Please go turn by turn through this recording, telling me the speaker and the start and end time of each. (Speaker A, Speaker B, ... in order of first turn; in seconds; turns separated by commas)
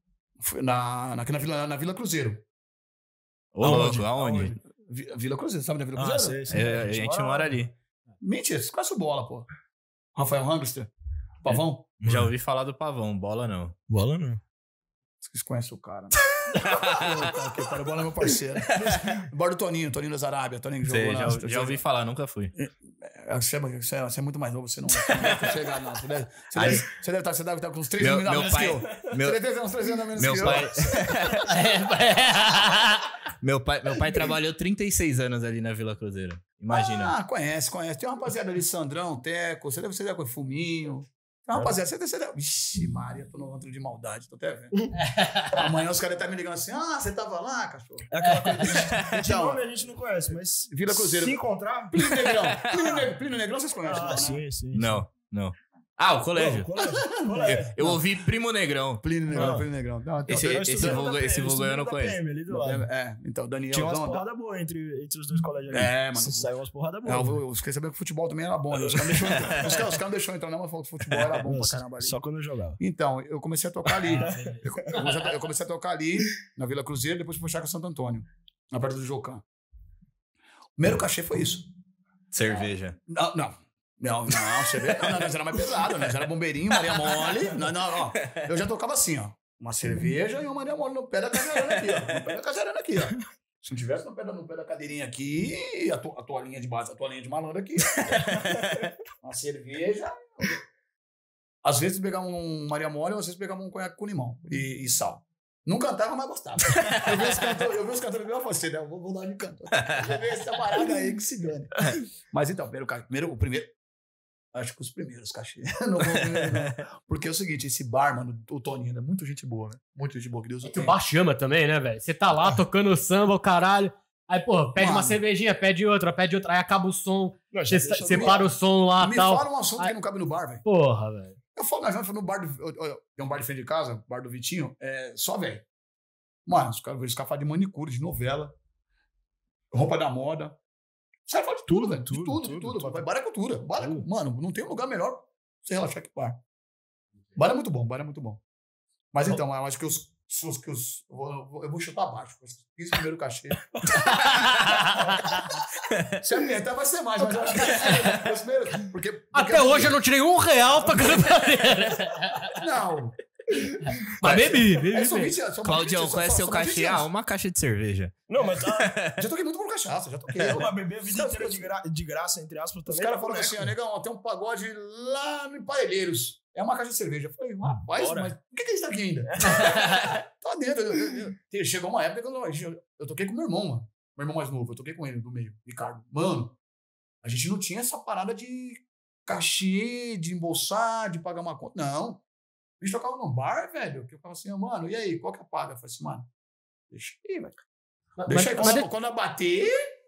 Speaker A: 0.4-2.4, Speaker B: 3.5-4.5, Speaker C: 3.6-4.5, Speaker A: 3.6-4.0, Speaker A: 4.5-6.5, Speaker C: 5.9-7.6, Speaker B: 6.5-7.7, Speaker A: 8.2-9.5, Speaker A: 10.1-10.9, Speaker A: 11.4-11.9, Speaker B: 11.5-13.8, Speaker C: 12.0-12.3, Speaker C: 13.9-14.4, Speaker A: 15.2-21.8, Speaker B: 16.5-16.9, Speaker B: 20.8-22.5, Speaker A: 22.6-31.4, Speaker B: 26.5-26.8, Speaker B: 28.0-29.4, Speaker B: 30.1-31.5, Speaker D: 31.5-33.1, Speaker B: 33.4-37.1, Speaker A: 36.7-44.9, Speaker D: 45.1-45.7, Speaker A: 45.5-49.6, Speaker C: 48.1-51.9, Speaker D: 48.2-48.7, Speaker A: 50.7-54.4, Speaker C: 52.7-53.0, Speaker C: 53.8-55.0, Speaker B: 54.7-56.7, Speaker C: 56.3-57.9, Speaker A: 56.7-58.0, Speaker B: 57.4-59.5, Speaker A: 59.0-61.0, Speaker C: 59.3-59.6, Speaker B: 60.3-62.2, Speaker C: 60.3-62.9, Speaker A: 62.5-64.2, Speaker C: 63.7-67.4, Speaker A: 65.7-66.5, Speaker A: 67.0-72.2, Speaker C: 68.8-69.4, Speaker C: 71.4-72.8, Speaker A: 72.8-79.4, Speaker C: 74.2-74.6, Speaker A: 80.8-81.7, Speaker B: 82.3-83.0, Speaker A: 83.1-98.3, Speaker B: 86.9-87.4, Speaker B: 91.7-92.2, Speaker B: 98.1-98.6, Speaker A: 99.2-100.6, Speaker A: 101.6-113.7, Speaker A: 114.5-121.0, Speaker D: 120.6-129.9, Speaker A: 124.8-125.2, Speaker C: 127.5-128.3, Speaker A: 128.0-130.6, Speaker D: 130.6-131.3, Speaker A: 131.6-135.7, Speaker A: 136.4-138.5, Speaker A: 139.7-140.6, Speaker A: 141.2-146.4, Speaker C: 141.7-143.0, Speaker C: 143.8-144.0, Speaker A: 147.3-148.4, Speaker A: 149.1-155.1, Speaker D: 154.1-155.5, Speaker A: 156.1-160.0, Speaker D: 157.7-158.2, Speaker D: 159.3-162.6, Speaker A: 162.6-163.2, Speaker D: 163.6-165.3, Speaker B: 164.2-164.6, Speaker A: 164.9-167.1, Speaker B: 165.6-169.1, Speaker C: 168.3-168.9, Speaker A: 169.2-171.7, Speaker C: 170.4-173.7, Speaker A: 172.9-186.6, Speaker C: 177.9-178.3, Speaker C: 179.3-179.8, Speaker A: 187.2-192.2, Speaker A: 192.8-196.3, Speaker A: 196.9-197.6, Speaker A: 198.2-199.7, Speaker D: 198.3-198.8